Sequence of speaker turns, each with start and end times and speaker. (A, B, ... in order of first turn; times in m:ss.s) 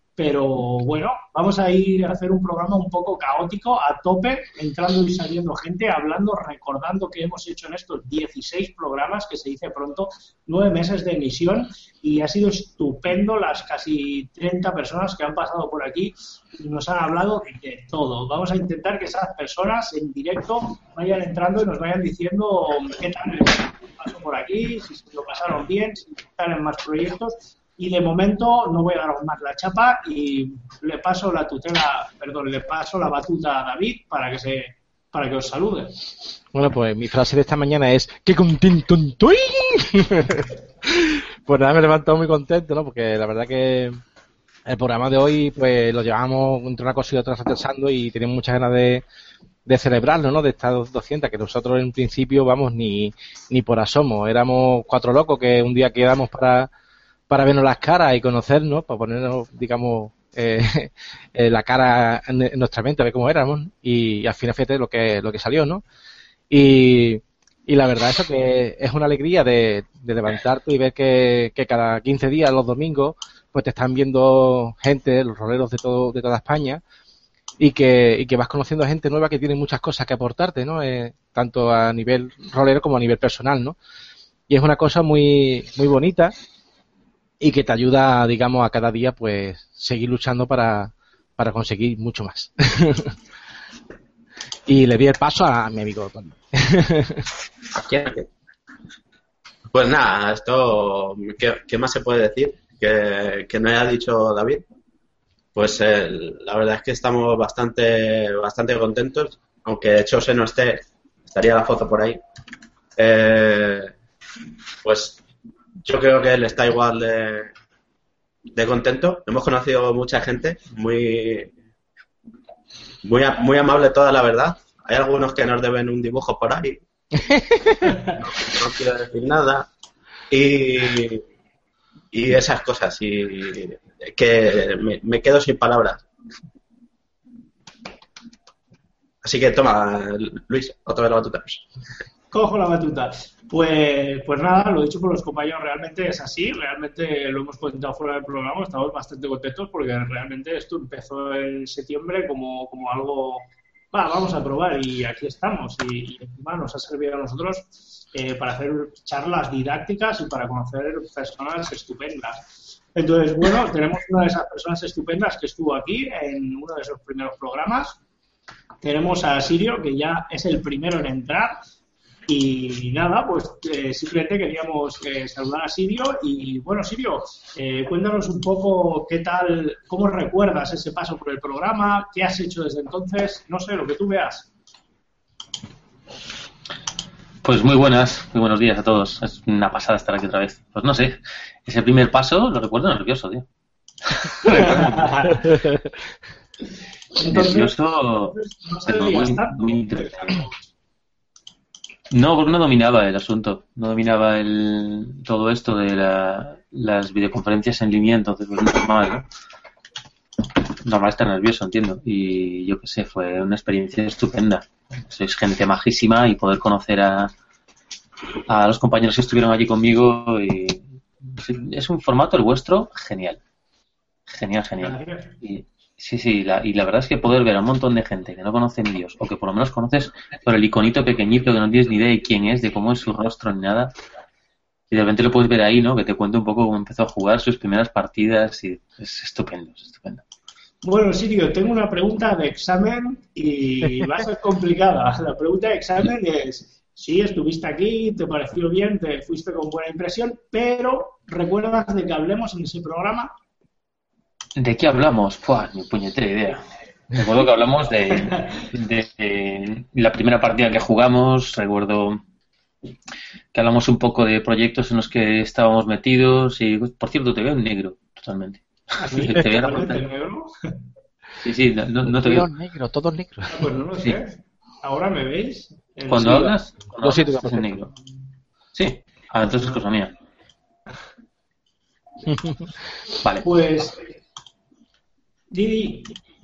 0:00.2-0:35.9 A
0:36.5-0:44.0 B
0:44.7-0:49.0 B
0:49.6-0:56.7 B
0:57.3-1:05.8 B
1:06.5-1:16.8 B
1:17.6-1:23.8 B
1:24.5-1:26.3 B
1:27.4-1:33.2 B
1:34.7-1:37.3 B
1:37.7-1:38.3 C
1:39.7-1:44.6 C
1:45.6-1:52.2 C
1:53.0-1:53.9 C
1:54.8-1:55.2 C
1:55.8-1:57.5 C
1:58.5-2:01.5 C
2:03.0-2:06.8 C
2:07.2-2:07.9 B
2:07.8-2:08.1 A
2:08.1-2:09.7 C
2:10.3-2:11.2 C
2:12.1-2:16.0 C
2:19.2-2:21.6 C
2:22.3-2:48.0 A
2:48.8-2:51.6 A
2:52.3-3:04.5 A
3:07.4-3:13.4 D
3:14.3-3:15.4 D
3:14.4-3:15.5 A
3:17.2-3:17.7 A
3:17.3-3:20.4 D
3:18.3-3:20.5 A
3:22.1-3:29.3 D
3:30.8-3:37.3 D
3:38.5-3:40.8 D
3:41.4-3:43.4 D
3:44.3-3:53.9 D
3:44.8-3:45.3 A
3:54.9-4:00.2 D
4:00.8-4:13.3 A
4:14.6-4:16.6 D
4:17.1-4:22.2 D
4:23.5-4:30.0 D
4:29.0-4:30.5 A
4:31.4-4:32.5 D
4:32.0-4:33.6 B
4:33.5-4:36.6 A
4:36.1-4:37.9 D
4:37.0-4:37.9 B
4:38.8-4:40.1 D
4:42.3-4:42.7 B
4:43.4-4:44.0 A
4:45.5-4:46.2 A